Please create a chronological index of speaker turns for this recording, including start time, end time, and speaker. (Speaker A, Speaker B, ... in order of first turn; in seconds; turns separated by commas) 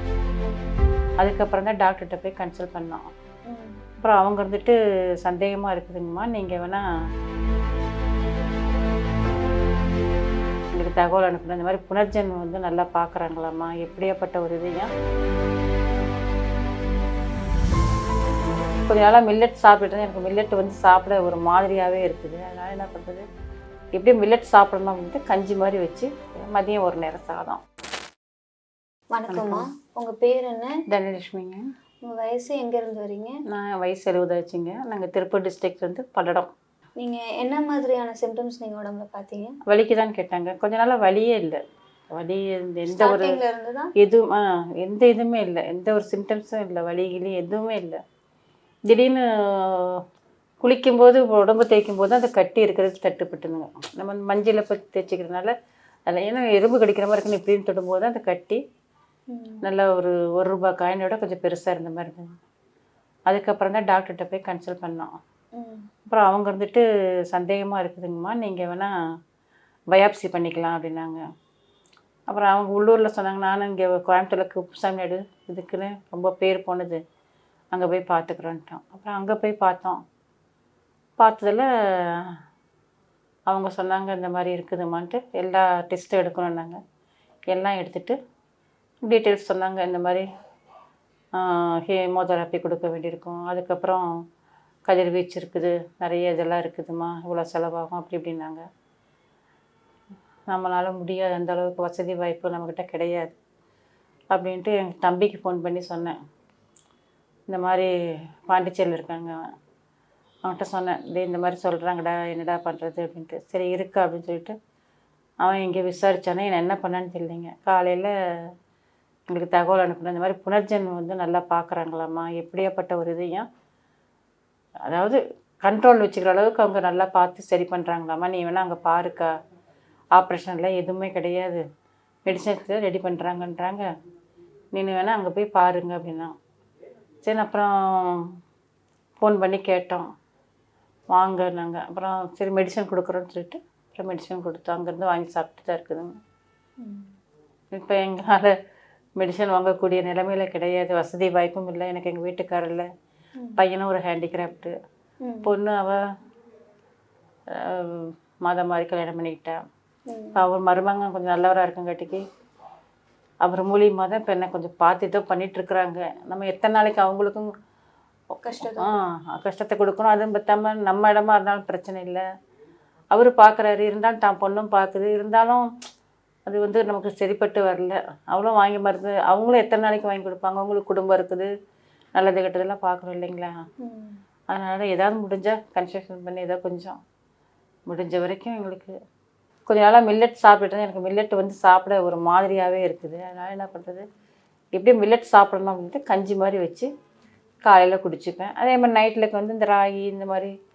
Speaker A: 1.2-3.0, Speaker B: 3.5-3.8, Speaker A: 4.0-6.9, Speaker A: 10.7-14.9, Speaker A: 18.7-23.2, Speaker A: 23.9-27.6, Speaker B: 29.1-30.7, Speaker A: 29.3-29.7, Speaker A: 30.9-31.6, Speaker B: 32.0-33.3, Speaker A: 33.5-36.5, Speaker B: 37.0-39.6, Speaker A: 39.7-41.6, Speaker A: 42.1-43.4, Speaker B: 42.9-43.9, Speaker A: 44.0-48.0, Speaker A: 48.9-50.0, Speaker A: 50.6-55.5, Speaker A: 56.1-58.6, Speaker B: 59.3-59.6, Speaker A: 59.6-62.4, Speaker A: 63.3-65.1, Speaker B: 65.5-65.8, Speaker A: 66.1-68.9, Speaker A: 69.9-71.2, Speaker A: 72.3-77.0, Speaker A: 77.7-80.0, Speaker A: 81.2-82.3, Speaker A: 83.5-86.8, Speaker A: 87.5-88.2, Speaker A: 89.1-90.2, Speaker A: 91.3-94.0, Speaker A: 94.9-98.6, Speaker A: 100.5-103.3, Speaker A: 104.3-106.2, Speaker A: 107.5-107.9, Speaker A: 108.5-109.4, Speaker A: 110.4-114.5, Speaker A: 115.4-118.5, Speaker A: 119.3-123.5, Speaker A: 124.8-129.3, Speaker A: 130.2-131.6, Speaker A: 132.2-133.9, Speaker A: 134.7-136.3, Speaker A: 137.2-138.3, Speaker A: 139.2-140.1, Speaker A: 141.1-146.1, Speaker B: 146.8-147.1, Speaker A: 147.7-148.5, Speaker A: 149.2-152.9, Speaker A: 153.6-154.7, Speaker B: 155.2-155.5, Speaker A: 155.4-156.0, Speaker A: 157.5-159.6, Speaker B: 160.1-160.4, Speaker A: 160.3-162.2, Speaker A: 163.4-167.5, Speaker B: 168.4-169.0, Speaker A: 168.6-172.2, Speaker A: 173.1-175.7, Speaker A: 176.5-181.5, Speaker A: 182.2-183.5, Speaker B: 183.8-184.2, Speaker A: 184.5-187.0, Speaker A: 187.9-188.9, Speaker A: 189.7-194.0, Speaker A: 194.8-196.9, Speaker A: 197.6-200.5